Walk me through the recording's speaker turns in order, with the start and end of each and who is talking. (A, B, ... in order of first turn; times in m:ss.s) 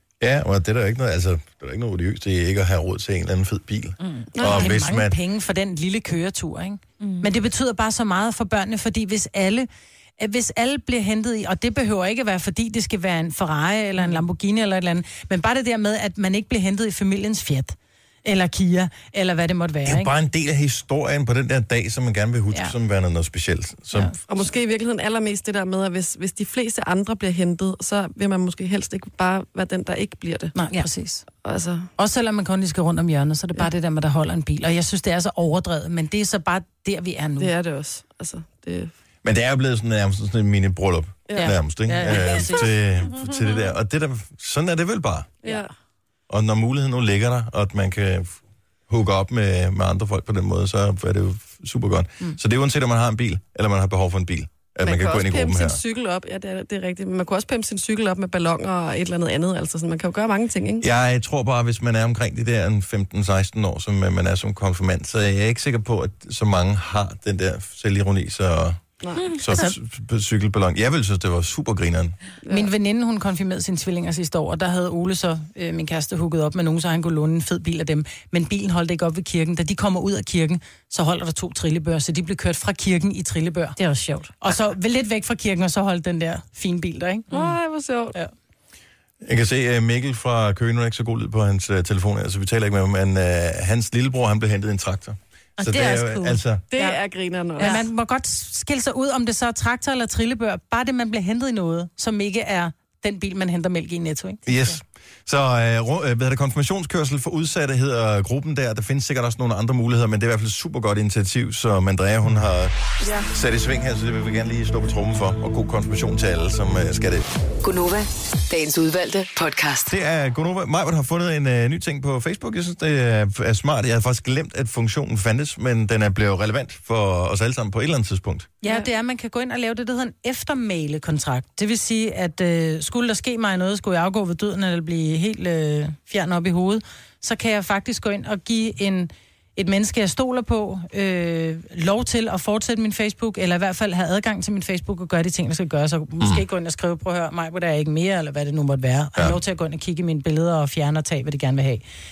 0:00.2-0:05.2 A
0:04.0-0:04.3 B
0:04.4-0:04.7 C
0:04.4-0:09.7 D
0:07.0-0:07.3 B
0:10.2-0:20.1 D
0:19.8-0:24.2 A
0:24.2-0:30.5 C
0:30.5-0:31.2 D
0:31.4-0:31.9 C
0:32.0-0:37.5 D
0:37.4-0:38.9 C
0:39.2-0:45.4 A
0:41.4-0:42.7 D
0:46.3-0:48.4 A
0:48.9-0:55.8 A
0:54.8-1:00.8 C
1:00.8-1:12.1 A
1:09.0-1:09.4 C
1:12.4-1:12.7 C
1:12.5-1:23.8 D
1:23.8-1:24.3 B
1:24.4-1:27.3 D
1:27.3-1:28.1 C
1:29.2-1:36.6 A
1:35.6-1:36.4 B
1:36.7-1:37.8 C
1:37.6-1:44.8 D
1:44.4-1:52.7 A
1:53.2-1:57.3 A
1:57.6-1:59.9 E
1:59.8-2:08.5 A
2:08.6-2:31.8 D